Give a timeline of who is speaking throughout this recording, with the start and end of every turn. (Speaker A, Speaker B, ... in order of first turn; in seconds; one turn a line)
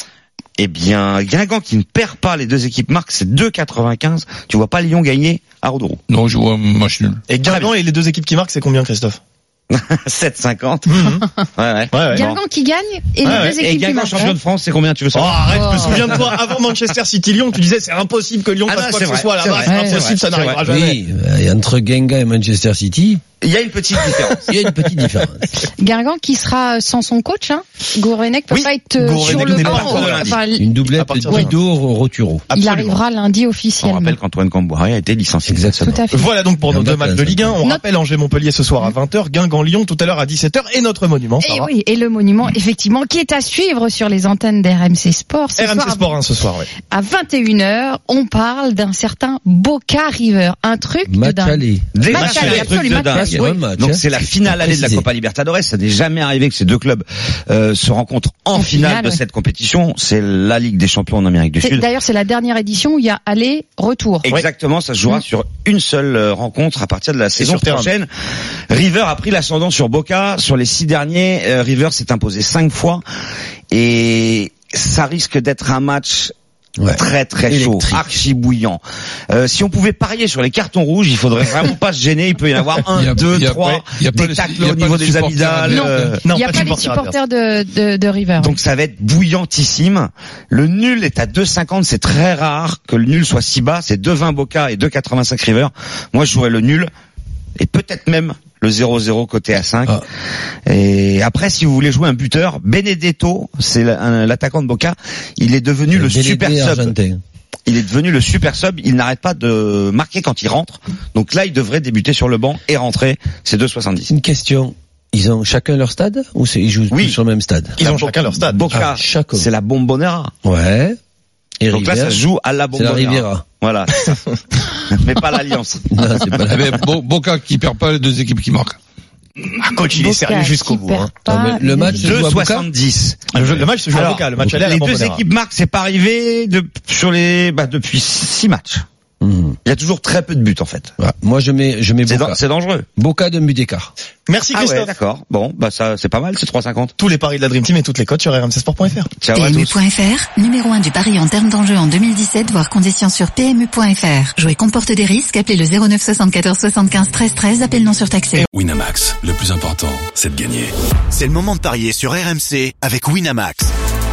Speaker A: 0.6-6.0
Speaker B: 6.1-7.2
Speaker C: 7.3-9.2
Speaker A: 7.4-7.7
Speaker A: 9.7-12.3
Speaker C: 10.9-11.2
Speaker C: 11.9-12.3
Speaker D: 12.1-14.4
Speaker C: 13.2-13.6
Speaker A: 13.2-16.2
Speaker C: 15.1-21.0
Speaker D: 15.5-15.9
Speaker A: 18.7-20.6
Speaker D: 19.6-20.1
Speaker E: 20.6-23.2
Speaker A: 23.4-24.4
Speaker E: 24.3-25.5
Speaker D: 25.6-30.7
Speaker C: 28.9-30.3
Speaker E: 29.2-32.5
Speaker A: 29.2-30.4
Speaker C: 30.9-31.6
Speaker D: 32.5-34.2
Speaker A: 32.5-33.0
Speaker A: 33.8-36.0
Speaker E: 35.5-36.0
Speaker D: 35.8-36.3
Speaker C: 36.1-41.7
Speaker E: 36.7-37.5
Speaker D: 41.4-46.1
Speaker C: 45.6-46.7
Speaker D: 46.8-53.6
Speaker E: 51.0-52.2
Speaker A: 51.9-61.9
Speaker C: 52.1-52.7
Speaker E: 53.1-55.0
Speaker D: 58.5-59.2
Speaker D: 61.6-64.3
Speaker A: 64.2-68.1
Speaker C: 67.4-67.9
Speaker A: 68.7-73.0
Speaker A: 73.7-76.3
Speaker E: 76.8-78.2
Speaker A: 77.0-86.2
Speaker B: 82.9-86.2
Speaker D: 85.7-88.6
Speaker C: 86.2-87.2
Speaker A: 88.4-96.9
Speaker A: 97.6-100.0
Speaker A: 100.7-106.9
Speaker E: 105.9-107.2
Speaker A: 107.7-114.1
Speaker E: 114.1-117.8
Speaker A: 116.9-117.2
Speaker C: 117.8-118.7
Speaker A: 117.8-120.3
Speaker E: 118.7-119.5
Speaker E: 120.4-121.0
Speaker E: 121.6-123.4
Speaker A: 121.7-124.2
Speaker A: 124.7-125.9
Speaker E: 125.9-126.7
Speaker B: 126.5-128.8
Speaker C: 129.6-131.1
Speaker D: 129.9-132.1
Speaker E: 131.2-132.7
Speaker A: 131.8-138.8
Speaker C: 133.3-135.2
Speaker E: 139.2-139.6
Speaker A: 139.6-140.9
Speaker E: 141.0-142.4
Speaker A: 142.1-142.9
Speaker E: 142.9-143.9
Speaker C: 144.3-144.9
Speaker A: 144.5-146.9
Speaker C: 147.0-149.1
Speaker A: 149.2-149.8
Speaker F: 149.3-158.5
Speaker G: 158.5-160.8
Speaker H: 161.1-163.7